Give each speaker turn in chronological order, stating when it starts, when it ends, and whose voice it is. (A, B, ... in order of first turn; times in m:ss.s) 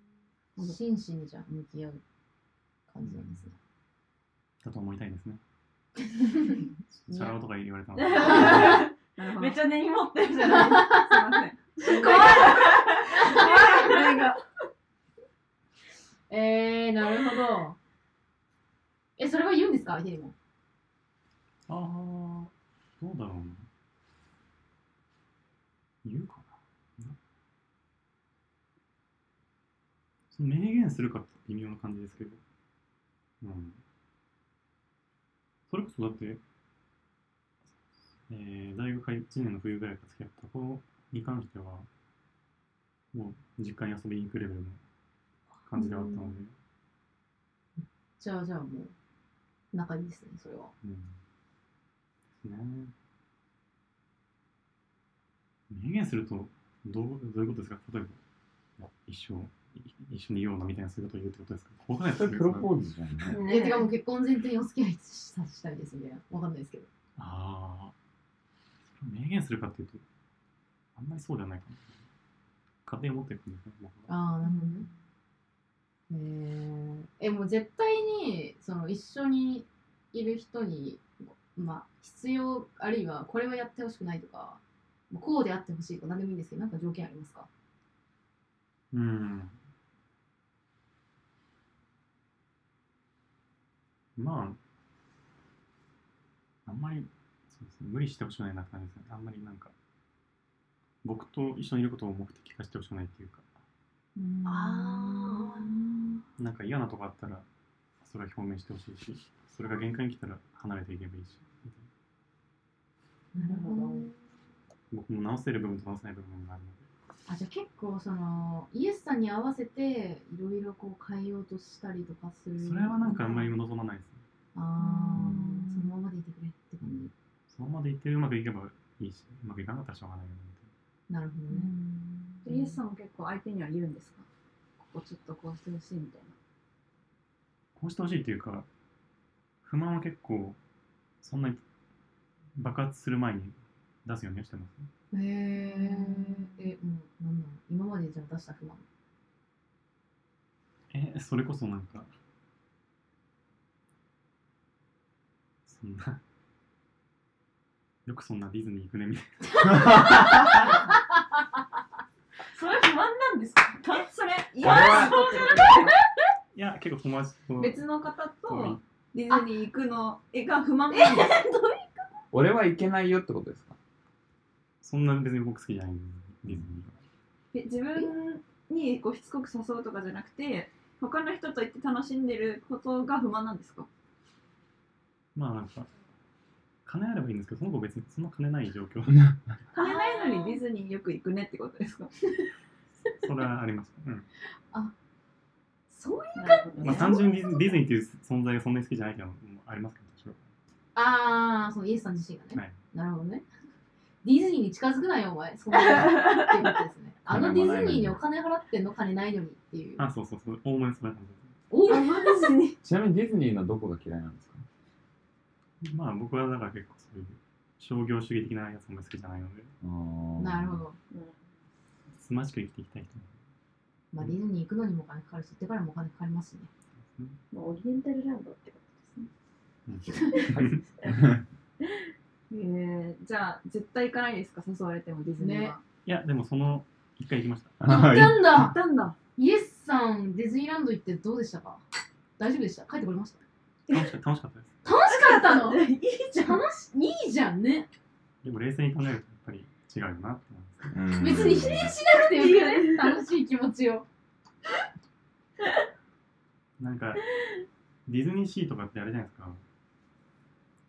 0:00.6-0:02.0 A
0:02.9-0:03.6 A
0:03.0-0:03.4 B
0:04.6-0:05.4 B
0:06.9-0:08.8 B
0:08.0-0:10.9 C
0:08.2-0:14.4 D
0:10.4-0:14.0 A
0:11.8-0:14.2 C
0:16.3-0:17.8 A
0:19.2-0:20.3 A
0:21.7-0:23.6 B
0:26.0-0:27.2 B
0:30.3-0:32.4 B
0:33.4-0:33.8 B
0:35.7-0:36.4 B
0:38.3-0:41.9 B
0:43.1-0:44.8 B
0:45.7-0:46.5 B
0:45.8-0:46.1 A
0:47.8-0:48.9 A
0:49.7-0:50.7 A
0:50.8-0:51.2 B
0:52.4-0:52.9 B
0:55.7-0:58.2 B
0:58.8-1:02.7 B
1:02.2-1:03.4 E
1:03.3-1:03.8 C
1:03.4-1:06.9 A
1:07.2-1:07.9 B
1:09.0-1:10.0 B
1:11.0-1:12.0 B
1:12.8-1:14.1 B
1:14.1-1:14.9 A
1:14.4-1:14.9 C
1:16.1-1:27.5 A
1:28.9-1:29.6 B
1:34.2-1:34.6 B
1:36.6-1:39.7 B
1:41.0-1:43.5 B
1:44.2-1:46.2 C
1:44.4-1:45.8 A
1:46.4-1:47.4 B
1:48.0-1:51.9 B
1:53.3-1:54.1 A
1:53.4-1:54.1 C
1:54.9-1:56.9 B
1:57.3-2:03.5 A
2:02.6-2:04.2 B
2:04.5-2:07.1 A
2:04.8-2:05.9 C
2:06.8-2:10.7 B
2:11.1-2:11.7 A
2:11.5-2:12.8 C
2:12.4-2:14.2 D
2:14.8-2:16.4 D
2:17.8-2:18.7 B
2:19.6-2:20.6 B
2:21.2-2:21.6 B
2:22.5-2:24.9 B
2:25.1-2:28.8 A
2:25.7-2:26.6 C
2:30.9-2:32.1 B
2:35.6-2:36.2 B
2:38.0-2:40.2 B
2:39.7-2:40.5 E
2:42.6-2:46.0 D
2:42.9-2:43.2 C
2:44.6-2:45.3 E
2:44.9-2:45.6 C
2:46.5-2:47.9 B
2:47.6-2:51.5 D
2:48.4-2:48.8 B
2:50.9-2:51.8 C
2:52.3-2:53.8 E
2:54.8-2:57.0 B
2:57.5-3:03.9 D
3:05.3-3:05.9 B
3:06.8-3:09.4 B
3:09.7-3:12.1 D
3:09.8-3:10.6 A
3:13.1-3:14.3 B
3:15.9-3:17.5 A
3:16.4-3:17.6 C
3:16.8-3:20.4 B
3:20.9-3:23.4 A
3:24.2-3:30.0 A
3:27.2-3:28.2 E
3:30.0-3:31.5 B
3:31.7-3:32.6 A
3:31.9-3:32.8 C
3:32.8-3:34.6 E
3:35.8-3:39.7 B
3:39.8-3:40.8 E
3:40.4-3:41.0 A
3:42.2-3:43.4 B
3:44.1-3:46.7 A
3:47.1-3:47.4 B
3:47.5-3:49.3 C
3:49.8-3:50.8 B
3:50.5-3:51.4 E
3:52.5-3:55.8 D
3:55.4-3:55.8 A
3:56.0-3:57.8 B
3:57.8-3:58.7 E
3:57.8-3:58.8 A
3:58.5-3:59.2 D
3:59.4-4:01.8 A
4:02.4-4:03.4 A
4:03.9-4:04.7 B
4:04.8-4:05.8 A
4:05.1-4:06.6 D
4:06.3-4:07.9 A
4:08.4-4:11.0 B
4:10.9-4:11.9 E
4:11.2-4:14.0 A
4:12.2-4:13.2 D
4:16.8-4:17.4 B
4:18.0-4:19.6 B